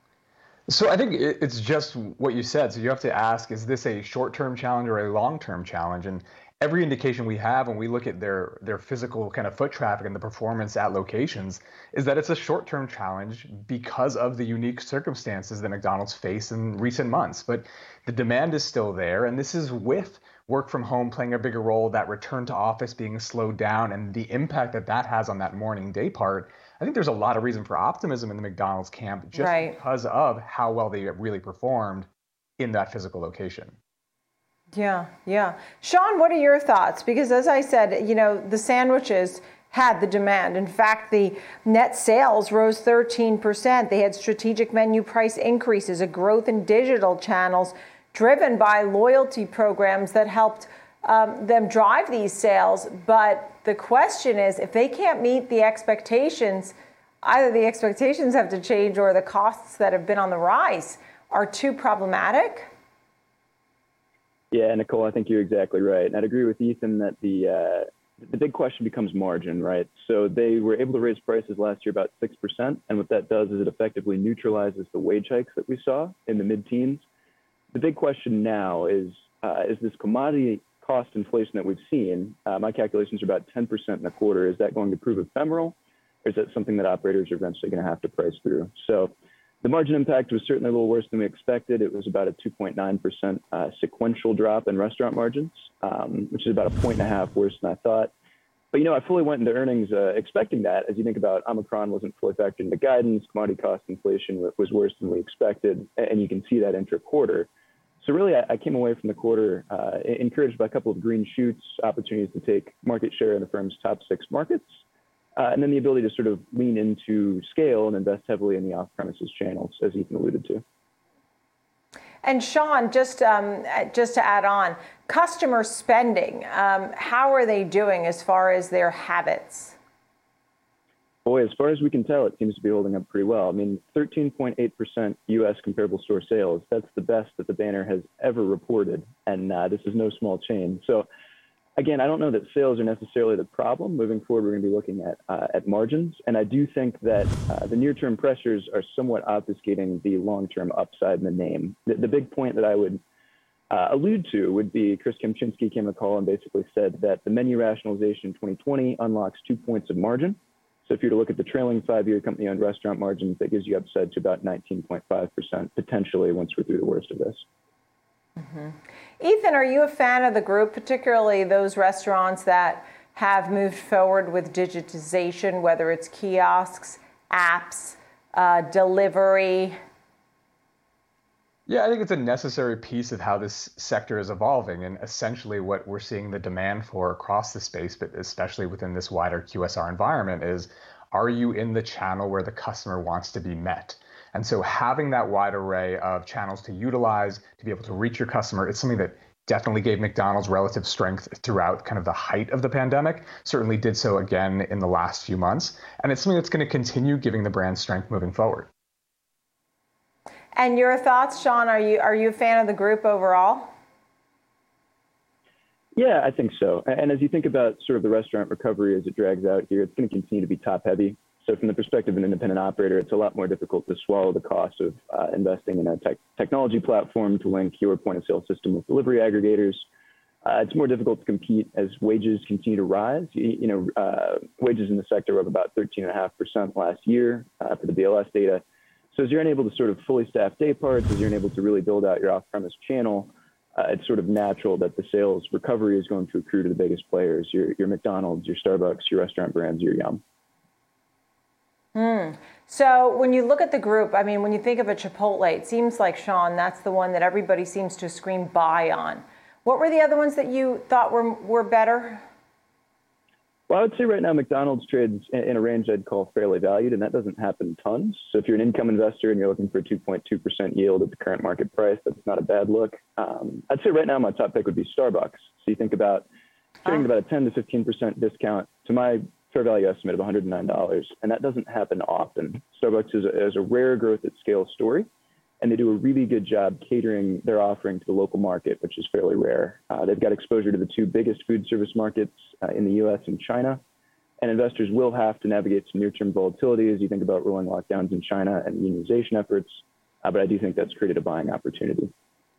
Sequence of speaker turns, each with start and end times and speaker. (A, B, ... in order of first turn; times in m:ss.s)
0:00.7-0:32.1 A
0:29.3-0:29.8 B
0:32.6-0:33.7 A
0:34.7-1:02.7 B
1:04.5-1:17.0 C
1:17.7-1:38.1 C
1:38.7-1:47.5 C
1:48.0-1:54.7 C
1:55.4-2:00.6 C
2:02.2-2:09.8 B
2:11.2-2:21.1 C
2:21.8-2:33.0 C
2:33.7-2:47.4 C
2:48.4-2:59.7 B
3:01.7-3:28.7 A
3:30.6-3:33.7 B
3:36.0-3:49.8 C
3:50.4-4:10.2 C
4:11.9-4:22.2 B
4:23.7-4:36.3 C
4:36.8-4:45.1 C
4:45.6-4:53.8 C
4:54.4-5:02.1 C